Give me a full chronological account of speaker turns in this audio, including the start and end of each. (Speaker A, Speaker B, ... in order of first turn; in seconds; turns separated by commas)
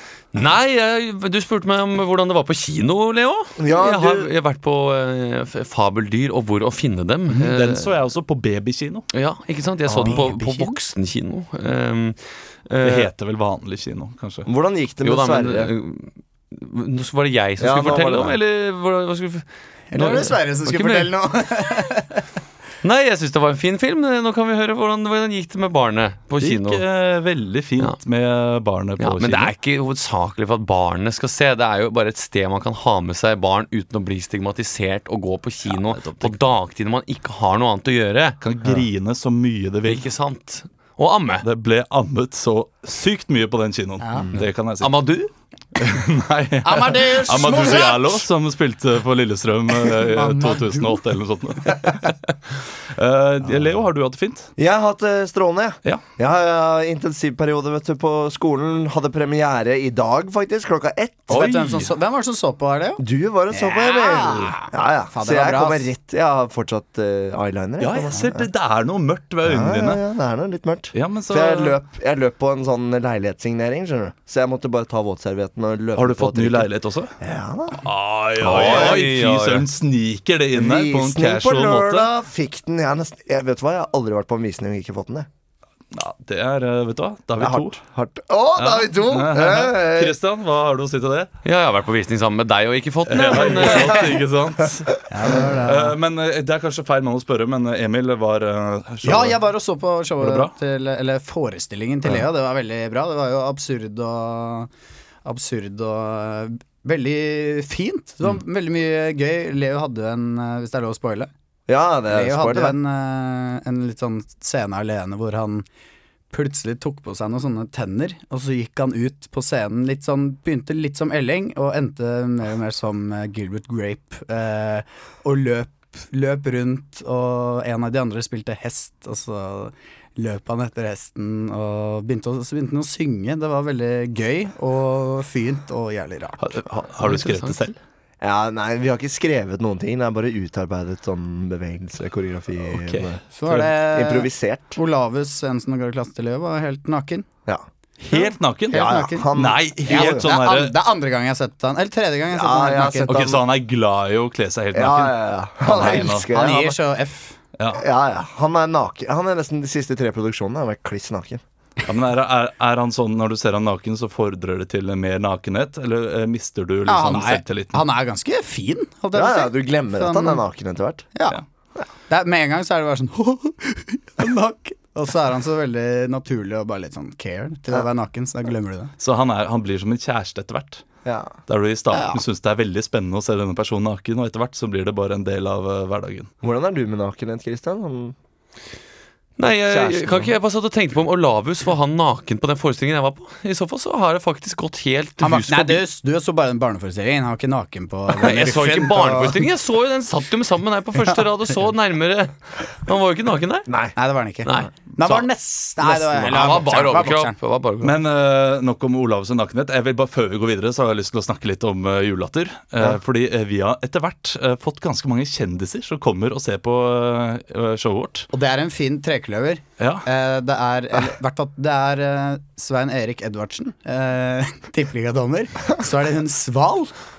Speaker A: 0.3-7.9, Speaker B: 3.6-4.3, Speaker C: 7.3-9.1, Speaker A: 9.1-13.1, Speaker D: 9.9-10.8, Speaker C: 12.8-14.5, Speaker B: 14.4-15.7, Speaker A: 15.0-21.1, Speaker B: 17.6-18.4, Speaker D: 19.9-22.2, Speaker A: 22.8-26.8, Speaker C: 26.4-29.5, Speaker A: 29.0-38.4, Speaker C: 35.7-36.3, Speaker C: 38.4-40.0, Speaker A: 39.9-41.4, Speaker C: 41.4-45.0, Speaker D: 44.0-44.3, Speaker B: 44.2-44.4, Speaker A: 44.8-45.3, Speaker C: 45.8-52.1, Speaker D: 46.6-48.2, Speaker D: 49.9-51.0, Speaker C: 52.9-54.5, Speaker B: 54.6-61.5, Speaker D: 61.3-65.9, Speaker C: 61.3-61.9, Speaker B: 63.0-68.5, Speaker C: 67.8-70.0, Speaker B: 69.4-77.8, Speaker C: 70.9-71.8, Speaker C: 76.0-77.1, Speaker C: 77.8-82.1, Speaker A: 78.4-79.7, Speaker B: 78.4-79.1, Speaker B: 80.5-85.3, Speaker C: 85.9-87.8, Speaker B: 87.4-90.2, Speaker C: 88.6-91.3, Speaker A: 91.4-94.2, Speaker C: 93.1-95.0, Speaker D: 95.1-96.0, Speaker C: 95.6-99.4, Speaker D: 99.0-104.7, Speaker C: 100.2-100.5, Speaker D: 105.2-111.3, Speaker B: 111.7-112.8, Speaker D: 112.1-115.6, Speaker D: 116.3-136.4, Speaker C: 136.4-137.7, Speaker A: 137.0-137.7, Speaker B: 138.2-143.2, Speaker C: 142.7-143.7, Speaker D: 143.3-147.2, Speaker B: 143.8-144.8, Speaker B: 147.4-150.3, Speaker C: 148.0-150.7, Speaker D: 148.7-149.3, Speaker D: 149.8-153.1, Speaker B: 152.3-153.4, Speaker C: 153.1-156.3, Speaker B: 154.7-156.8, Speaker D: 155.8-157.3, Speaker C: 157.6-157.8, Speaker B: 157.7-161.4, Speaker C: 161.9-167.8, Speaker D: 166.9-170.4, Speaker B: 169.1-171.1, Speaker D: 172.1-178.9, Speaker C: 179.0-180.8, Speaker B: 181.0-181.3, Speaker C: 181.5-186.3, Speaker D: 181.9-182.2, Speaker B: 186.4-188.1, Speaker A: 189.4-195.8, Speaker B: 189.7-190.2, Speaker D: 195.2-199.4, Speaker A: 198.2-203.7, Speaker B: 203.7-203.9, Speaker D: 203.9-207.3, Speaker A: 204.4-205.3, Speaker A: 205.8-208.0, Speaker C: 207.8-218.3, Speaker D: 218.3-226.9, Speaker C: 219.8-220.1